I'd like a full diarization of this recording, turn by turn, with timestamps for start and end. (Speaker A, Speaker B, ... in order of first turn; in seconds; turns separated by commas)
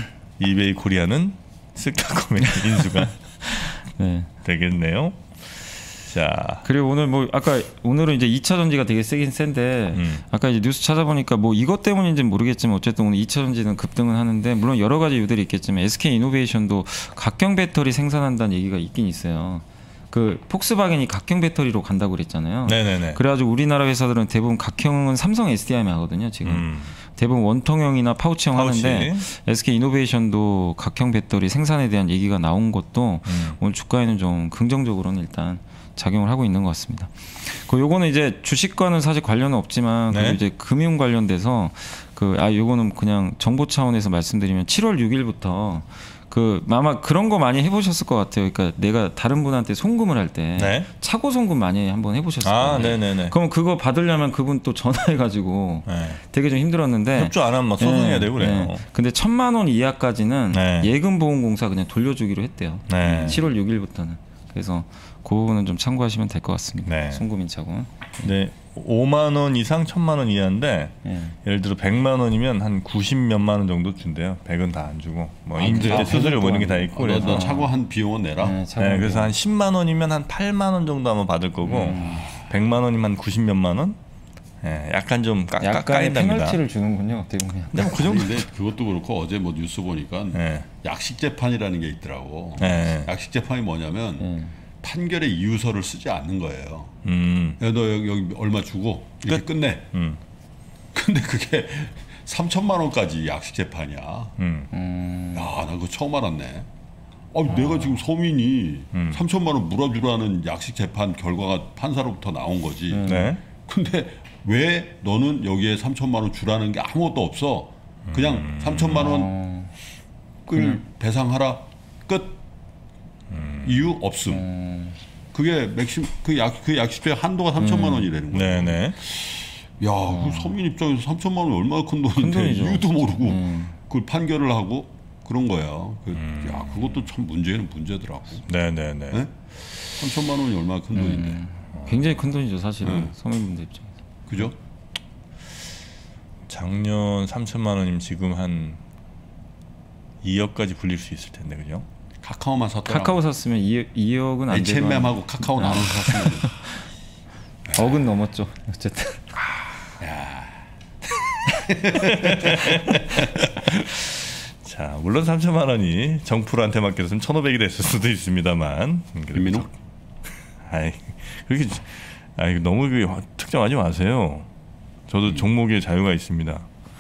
Speaker A: 0.4-3.2, Speaker B: 2.8-4.3, Speaker A: 4.4-6.7, Speaker B: 6.7-68.3, Speaker A: 9.9-10.2, Speaker A: 22.6-23.2, Speaker A: 26.4-26.9, Speaker A: 28.6-29.3, Speaker A: 33.3-33.6, Speaker A: 40.1-40.4, Speaker A: 50.6-50.9, Speaker A: 52.4-53.4, Speaker A: 55.9-56.2, Speaker A: 57.1-58.8, Speaker A: 60.5-60.9, Speaker A: 62.9-63.4, Speaker C: 63.1-63.4, Speaker A: 66.9-67.2, Speaker A: 68.2-77.5, Speaker B: 71.0-71.4, Speaker C: 75.6-78.6, Speaker B: 75.7-76.4, Speaker B: 77.1-77.7, Speaker B: 78.4-79.3, Speaker A: 78.8-84.0, Speaker B: 81.6-82.3, Speaker C: 81.8-82.5, Speaker A: 84.6-86.6, Speaker B: 85.6-88.1, Speaker A: 87.7-88.5, Speaker C: 87.8-94.3, Speaker A: 90.3-90.7, Speaker A: 92.6-93.1, Speaker B: 94.2-94.5, Speaker C: 94.8-97.0, Speaker A: 97.0-97.6, Speaker C: 97.6-99.9, Speaker A: 99.3-100.2, Speaker C: 100.9-104.3, Speaker A: 104.4-104.7, Speaker B: 104.7-105.5, Speaker C: 105.3-106.7, Speaker C: 107.3-119.3, Speaker A: 108.9-109.2, Speaker B: 112.9-113.4, Speaker A: 113.0-113.4, Speaker A: 118.1-119.2, Speaker B: 118.9-119.7, Speaker C: 120.5-122.4, Speaker B: 120.5-120.8, Speaker A: 123.3-123.9, Speaker C: 123.6-124.5, Speaker B: 124.3-125.0, Speaker C: 125.3-138.5, Speaker B: 127.6-128.1, Speaker A: 128.3-129.0, Speaker B: 130.1-130.6, Speaker B: 132.2-133.8, Speaker A: 136.1-137.0, Speaker A: 138.5-139.2, Speaker C: 139.1-141.4, Speaker B: 140.9-143.9, Speaker A: 141.7-142.2, Speaker C: 142.8-143.1, Speaker C: 144.3-144.5, Speaker A: 146.5-148.8, Speaker A: 150.2-151.9, Speaker C: 152.2-153.2, Speaker B: 152.9-156.8, Speaker C: 154.5-156.6, Speaker C: 157.7-158.0, Speaker B: 157.7-159.3, Speaker C: 160.0-160.7, Speaker C: 161.4-163.9, Speaker A: 161.9-169.7, Speaker C: 169.3-169.7, Speaker A: 170.6-174.5, Speaker A: 175.1-176.7